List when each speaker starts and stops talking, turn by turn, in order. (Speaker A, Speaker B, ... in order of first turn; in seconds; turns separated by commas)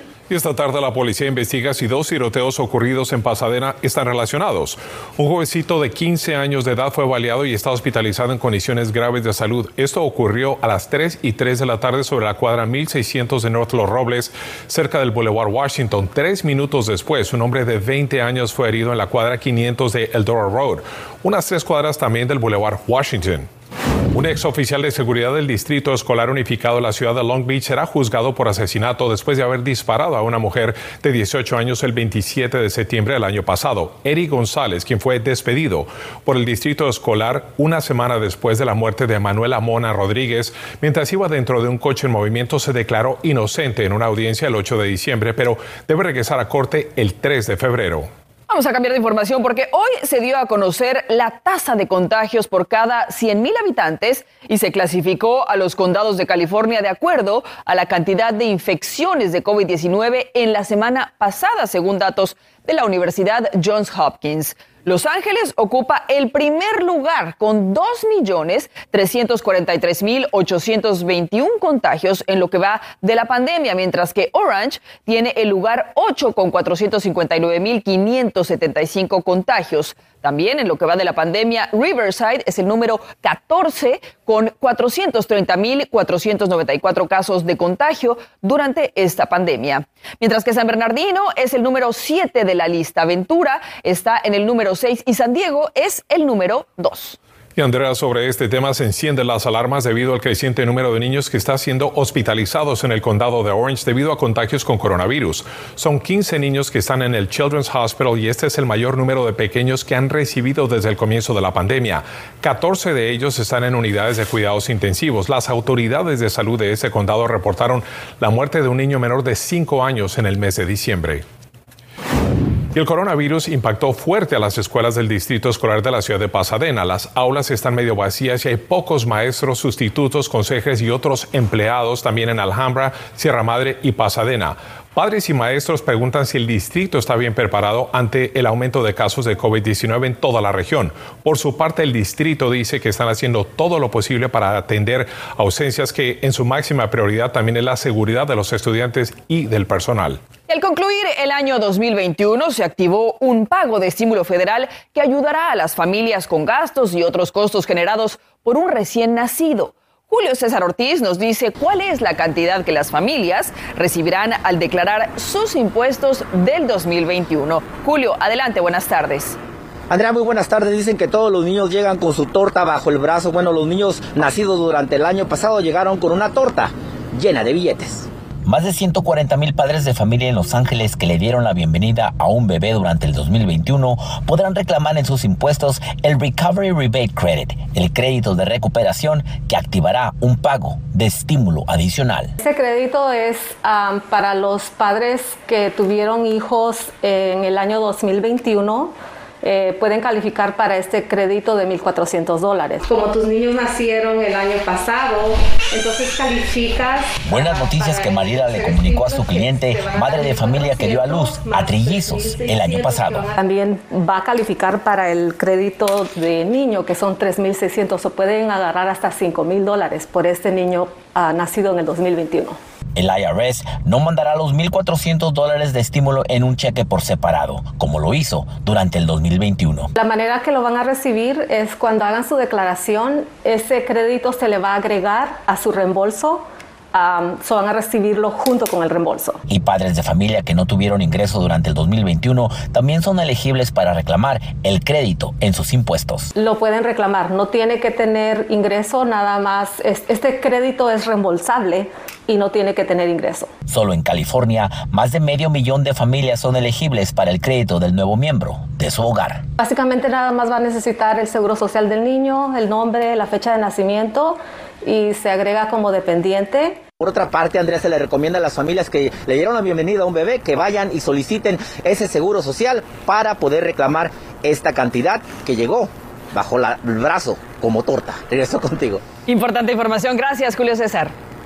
Speaker A: 0.3-23.5, Speaker A: 24.1-48.1, Speaker B: 48.5-97.2, Speaker A: 97.5-121.2, Speaker A: 122.7-150.2, Speaker B: 150.5-169.4, Speaker C: 169.9-178.1, Speaker D: 178.4-192.3, Speaker E: 192.4-222.6, Speaker D: 207.2-213.3, Speaker D: 222.9-229.9, Speaker E: 229.9-239.4, Speaker D: 239.5-246.3, Speaker E: 246.3-253.5, Speaker D: 253.7-259.4, Speaker E: 259.6-266.8, Speaker C: 267.0-279.0, Speaker B: 279.2-281.1